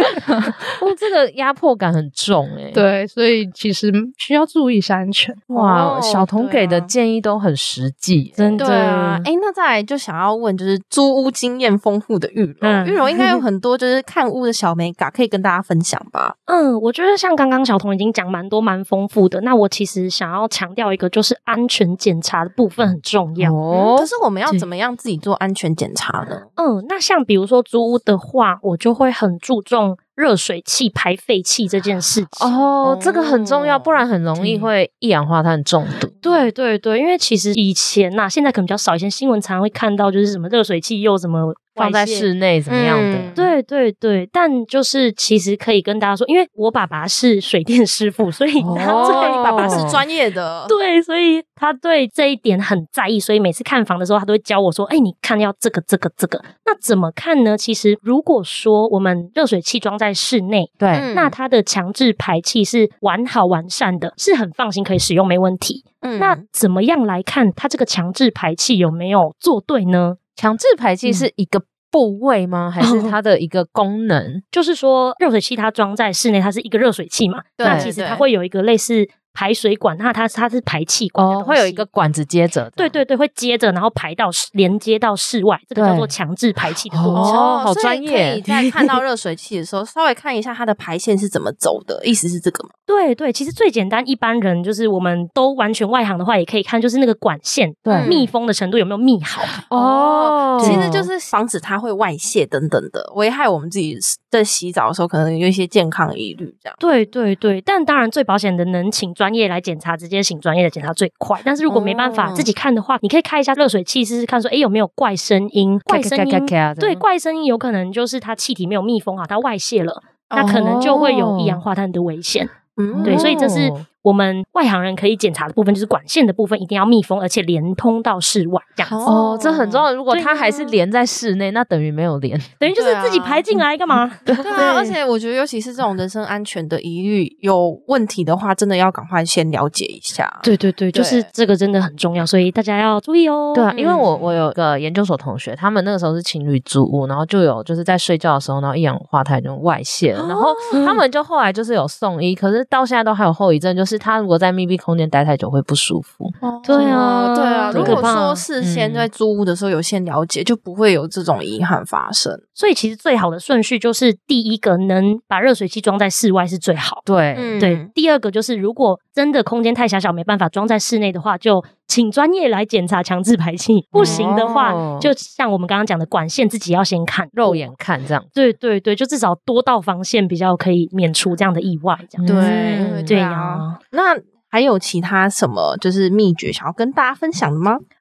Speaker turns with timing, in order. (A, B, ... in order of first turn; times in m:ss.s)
0:00.2-0:00.6 A
0:00.8-0:02.8 B
0:02.7-0:05.4 A
0:05.5-0:08.7 B
0:05.5-0:06.9 C
0:08.4-0:09.3 D
0:08.6-0:16.3 C
0:12.6-0:13.4 D
0:16.5-0:23.6 D
0:23.4-0:24.6 B
0:23.7-0:26.5 C
0:26.6-0:32.5 D
0:32.4-0:36.2 B
0:32.6-0:34.0 C
0:34.4-0:34.7 D
0:36.2-0:42.3 D
0:41.8-0:43.4 B
0:42.7-0:43.5 C
0:43.4-0:49.9 D
0:48.6-0:50.0 B
0:48.6-0:50.7 C
0:50.7-1:10.2 D
1:00.8-1:01.1 B
1:00.9-1:01.4 C
1:06.0-1:06.4 C
1:10.4-1:14.4 B
1:12.8-1:13.1 D
1:14.5-1:21.9 D
1:17.6-1:18.2 C
1:17.6-1:17.9 B
1:21.2-1:23.0 B
1:22.8-1:27.4 D
1:25.7-1:26.1 B
1:26.9-1:28.4 B
1:27.1-1:32.7 C
1:32.9-1:39.6 D
1:37.8-1:38.2 B
1:37.9-1:38.3 C
1:39.7-1:41.1 B
1:39.7-1:46.8 C
1:40.6-1:40.9 D
1:46.8-2:09.0 D
1:51.7-1:52.5 C
1:55.9-1:57.0 B
2:00.3-2:00.9 C
2:00.4-2:01.6 B
2:02.8-2:03.4 C
2:02.9-2:03.8 B
2:08.8-2:09.9 C
2:09.0-2:12.6 B
2:10.1-2:10.7 D
2:12.6-2:14.8 D
2:12.7-2:13.5 C
2:14.3-2:14.9 B
2:14.4-2:21.3 C
2:20.4-2:23.7 D
2:23.5-2:37.0 B
2:23.7-2:24.2 C
2:30.2-2:30.8 C
2:30.7-2:31.0 D
2:36.4-2:42.4 C
2:36.6-2:38.4 D
2:37.7-2:39.1 B
2:42.6-2:47.0 D
2:47.0-2:47.6 B
2:47.3-2:47.9 C
2:47.6-2:57.7 D
2:53.9-2:55.1 B
2:53.9-2:54.6 C
2:57.3-2:58.3 B
2:58.3-3:03.8 D
3:02.2-3:03.2 B
3:02.2-3:07.8 C